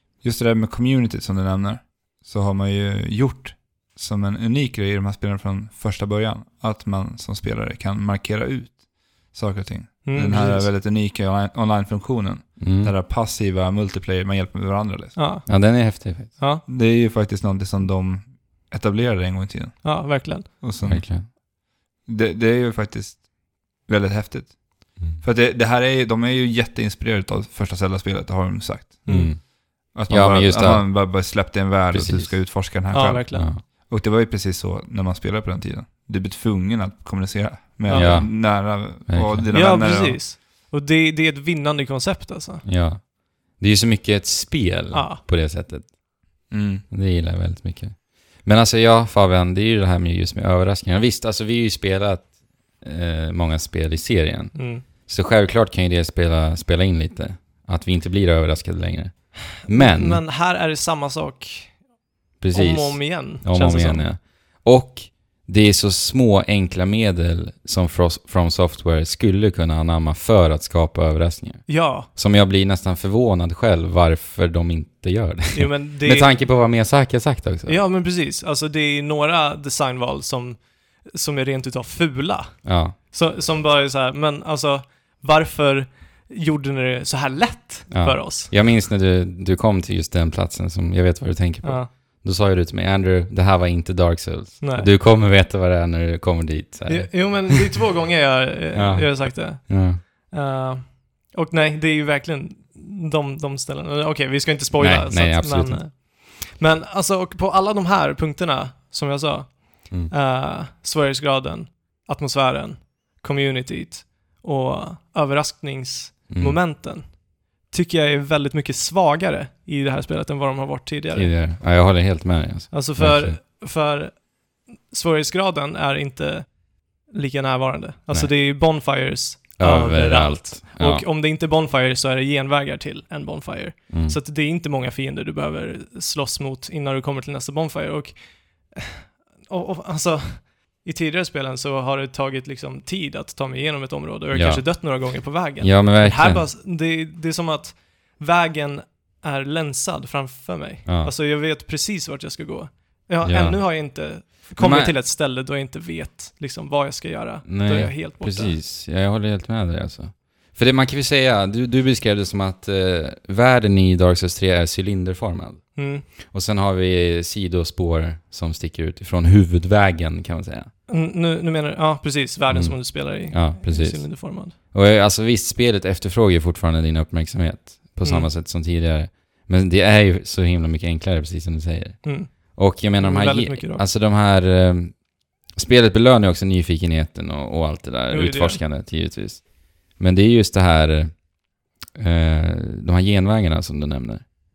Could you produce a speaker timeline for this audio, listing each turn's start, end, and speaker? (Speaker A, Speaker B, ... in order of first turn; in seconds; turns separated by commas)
Speaker A: 0.2-15.2, Speaker B: 10.0-10.7, Speaker C: 12.6-12.9, Speaker B: 15.2-16.6, Speaker C: 15.4-16.3, Speaker A: 16.6-21.1, Speaker B: 19.8-20.5, Speaker C: 20.8-21.2, Speaker A: 22.1-29.4, Speaker B: 29.1-29.3, Speaker C: 29.1-29.4, Speaker A: 29.9-40.2, Speaker C: 30.1-32.4, Speaker B: 32.9-33.5, Speaker C: 33.3-33.6, Speaker B: 37.8-38.2, Speaker C: 37.9-39.6, Speaker B: 39.5-42.6, Speaker C: 42.6-45.9, Speaker B: 44.9-45.2, Speaker A: 46.5-46.8, Speaker C: 46.9-60.2, Speaker B: 54.5-54.8, Speaker B: 59.6-61.8, Speaker C: 62.4-77.8, Speaker B: 62.5-64.0, Speaker B: 71.7-72.1, Speaker B: 75.5-76.3, Speaker B: 77.7-88.5, Speaker C: 82.6-83.0, Speaker C: 87.9-97.5, Speaker B: 91.6-91.9, Speaker B: 94.6-94.9, Speaker B: 96.9-121.3, Speaker C: 98.7-100.0, Speaker C: 104.7-105.8, Speaker C: 116.3-116.6, Speaker C: 121.1-123.4, Speaker B: 122.7-124.3, Speaker B: 124.9-158.5, Speaker C: 129.6-131.0, Speaker C: 133.9-134.2, Speaker C: 144.3-145.1, Speaker C: 145.6-146.4, Speaker C: 150.8-151.1, Speaker C: 153.2-153.6, Speaker C: 154.6-154.9, Speaker C: 157.4-170.7, Speaker B: 165.8-166.1, Speaker B: 170.9-174.5, Speaker C: 172.5-185.0, Speaker B: 178.0-178.3, Speaker B: 182.0-183.8, Speaker C: 185.5-191.2, Speaker B: 188.1-188.6, Speaker C: 192.0-194.3